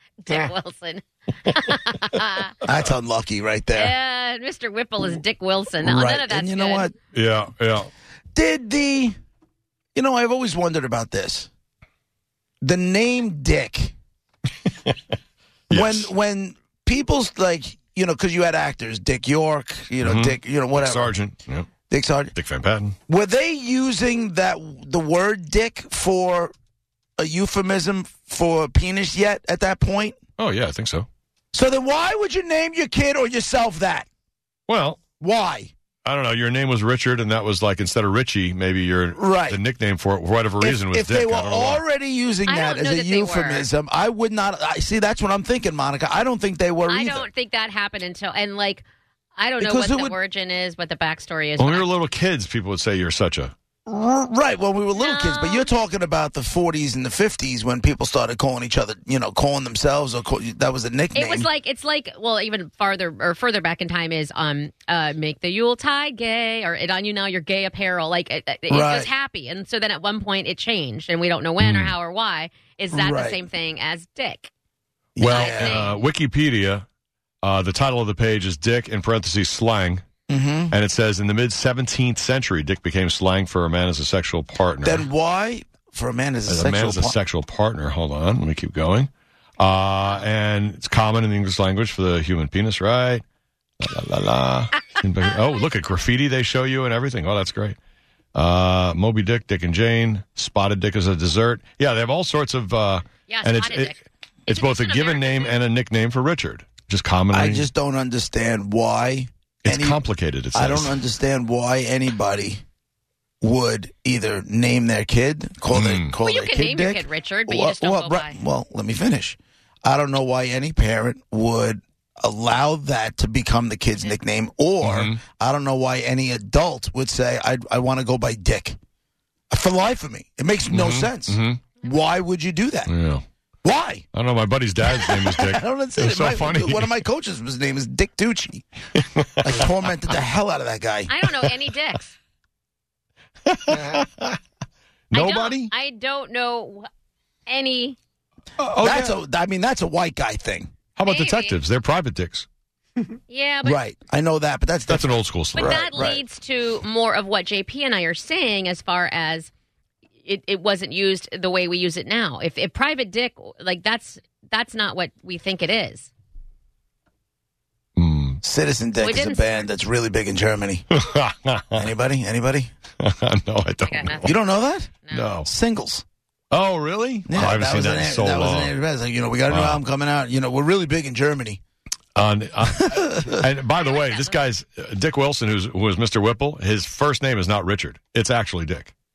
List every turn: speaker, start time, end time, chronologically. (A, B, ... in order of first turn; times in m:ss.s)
0:00.2-0:02.6 A
0:02.6-0:04.0 B
0:03.8-0:06.9 A
0:05.8-0:07.0 B
0:07.1-0:07.9 C
0:08.3-0:09.2 B
0:10.0-0:11.5 B
0:12.6-0:13.9 B
0:15.7-0:16.1 C
0:15.7-0:21.2 B
0:20.0-0:21.7 C
0:21.9-0:22.3 B
0:22.4-0:23.0 C
0:23.1-0:26.5 B
0:27.2-0:30.2 B
0:30.4-0:31.1 C
0:31.5-0:34.1 B
0:34.7-0:35.0 C
0:35.2-0:35.7 B
0:36.0-0:41.8 C
0:39.2-0:39.6 B
0:40.6-0:47.3 B
0:42.5-0:43.7 A
0:46.9-0:48.8 A
0:49.4-0:51.9 A
0:49.6-0:50.2 B
0:51.6-0:53.5 C
0:53.9-1:01.5 B
0:55.0-0:55.7 A
1:01.1-1:14.5 A
1:08.7-1:09.1 B
1:11.6-1:12.0 C
1:12.9-1:13.4 B
1:15.2-1:15.9 B
1:15.2-1:16.8 C
1:15.2-1:16.0 A
1:17.4-1:20.0 C
1:20.3-1:20.8 B
1:20.7-1:25.1 C
1:24.8-1:27.2 B
1:26.5-1:33.2 C
1:33.8-1:37.8 C
1:38.4-1:47.7 C
1:43.3-1:45.6 A
1:47.3-1:50.0 B
1:49.6-1:51.0 C
1:50.5-1:52.6 B
1:53.4-2:08.8 B
1:55.7-1:56.1 C
1:56.2-1:58.4 A
2:04.8-2:05.2 C
2:09.5-2:12.9 B
2:10.7-2:11.6 C
2:12.9-2:13.2 C
2:13.6-2:14.0 B
2:14.1-2:17.0 C
2:14.9-2:18.7 B
2:19.0-2:19.4 C
2:19.4-2:21.3 B
2:21.1-2:22.2 A
2:23.5-2:24.4 C
2:25.1-2:25.7 C
2:25.1-2:26.9 A
2:27.5-2:28.0 A
2:28.6-2:29.2 C
2:28.8-2:30.7 B
2:31.0-2:32.5 C
2:31.1-2:31.6 A
2:33.3-2:33.8 A
2:33.6-2:36.2 B
2:34.9-2:35.8 C
2:35.6-2:39.5 A
2:40.2-2:46.1 A
2:48.0-2:48.4 C
2:48.4-2:50.9 B
2:49.0-2:49.7 A
2:50.9-2:51.9 C
2:51.8-2:52.7 B
2:53.0-2:54.4 C
2:53.9-2:54.4 A
2:54.2-2:56.0 B
2:55.0-2:55.4 A
2:55.1-2:55.5 C
2:56.5-2:58.8 C
2:57.3-3:01.6 B
2:59.5-2:59.8 C
3:02.2-3:08.9 C
3:03.8-3:04.4 A